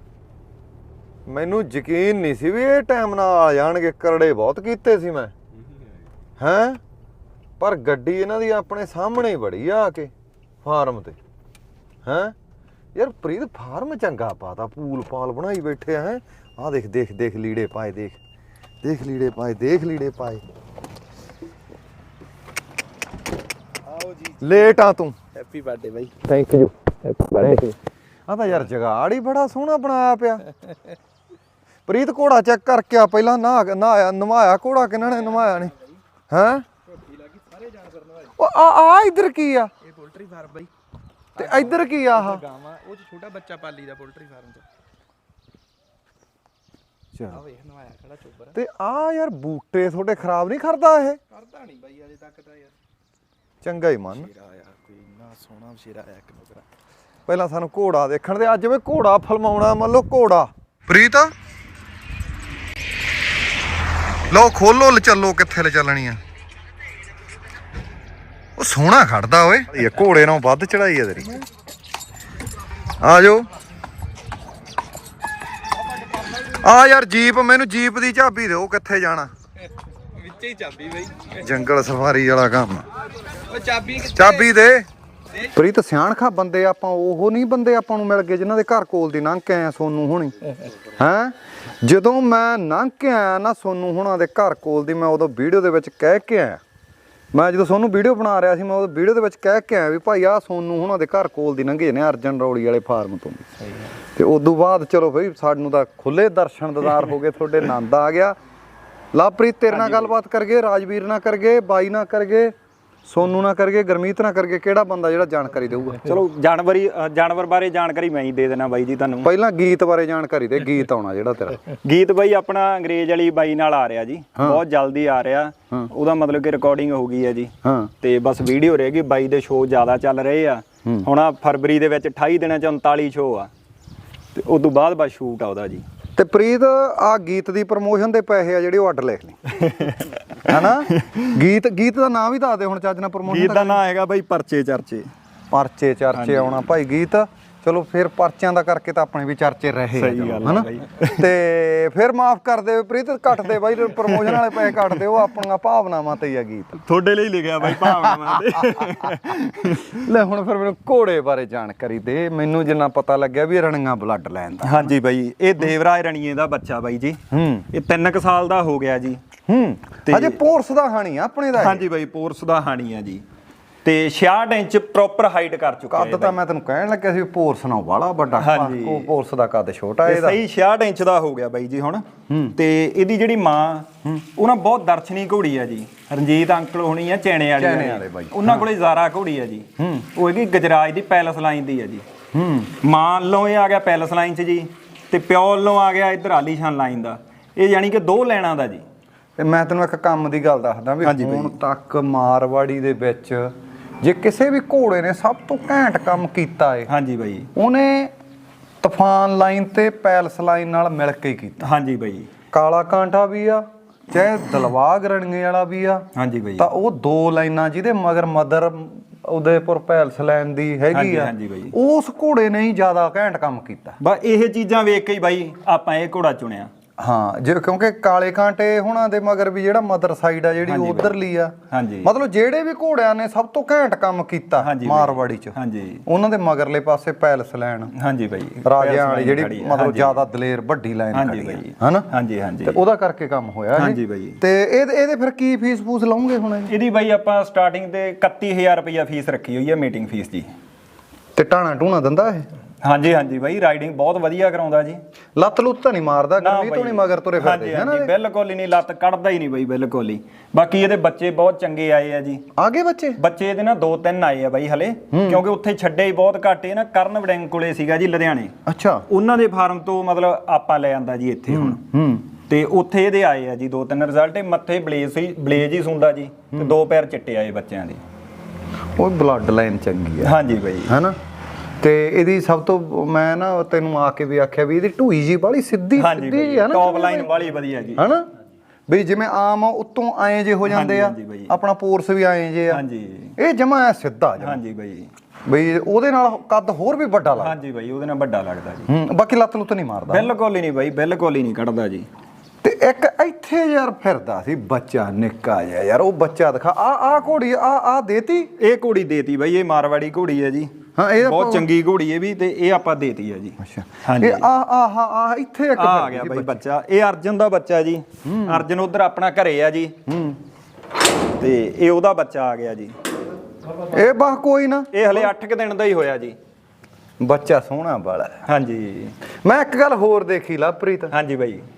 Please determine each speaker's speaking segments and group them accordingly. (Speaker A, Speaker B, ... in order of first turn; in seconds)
Speaker A: 1.3-5.3, 6.4-6.8, 7.6-10.1, 10.6-11.2, 12.1-12.3, 12.9-18.2, 18.8-20.4, 24.4-25.2, 28.3-30.5, 31.9-35.8, 36.3-36.6, 38.4-39.7, 41.4-42.5, 47.1-47.4, 48.5-51.2, 53.6-54.3, 57.3-61.3, 64.3-66.2, 68.6-71.5, 73.0-73.5, 76.4-79.3, 81.3-82.9, 83.9-84.9, 85.4-90.4, 91.0-96.6, 97.3-103.5, 104.2-108.3, 109.1-112.5, 113.0-116.1, 119.2-121.7, 127.6-127.9, 136.2-139.4, 140.4-143.8, 145.5-156.8, 157.7-164.9, 167.3-167.7, 169.5-171.9, 175.9-180.4, 182.3-182.6, 187.6-188.7, 189.8-190.1, 192.3-192.7, 199.4-203.5, 204.0-206.9, 207.6-208.1, 208.8-211.7, 212.5-216.1, 216.6-224.0, 227.0-237.9, 238.6-242.1, 242.6-246.7, 251.4-252.5, 255.4-258.1, 262.6-263.2, 265.1-265.4, 268.7-269.1, 271.5-272.3, 279.0-281.2, 281.8-287.3, 288.0-288.3, 288.9-292.8, 293.4-294.6, 295.5-297.6, 298.9-300.3, 302.6-308.5, 311.0-311.7, 313.6-316.6, 318.2-318.6, 320.1-320.4, 323.8-325.3, 327.2-328.4, 329.4-331.1
Speaker B: 25.4-26.3, 37.5-38.1, 40.0-40.7, 42.5-44.6, 47.5-48.3, 51.5-52.7, 54.4-56.6, 80.4-81.1
Speaker C: 109.7-110.1, 116.0-119.3, 121.7-133.5, 134.3-135.8, 139.5-141.4, 143.2-145.1, 146.1-146.7, 150.0-151.3, 153.4-155.2, 156.8-160.1, 164.6-167.2, 167.7-169.2, 170.1-170.4, 171.5-173.2, 173.8-176.4, 178.4-179.1, 180.1-192.1, 192.8-198.8, 201.0-201.6, 206.9-207.5, 211.6-212.3, 216.2-216.7, 220.9-221.8, 224.0-226.7, 230.7-231.2, 231.7-232.1, 234.6-236.0, 237.9-240.2, 241.1-242.8, 243.8-244.4, 246.7-250.5, 252.8-255.0, 256.4-262.4, 263.2-268.5, 269.1-271.8, 272.5-278.0, 280.2-280.9, 286.0-288.1, 290.7-291.6, 292.7-293.4, 294.4-295.1, 297.4-298.9, 300.1-302.1, 308.6-314.5, 315.8-320.0, 321.4-322.9, 324.9-326.4, 328.5-329.2, 331.1-331.7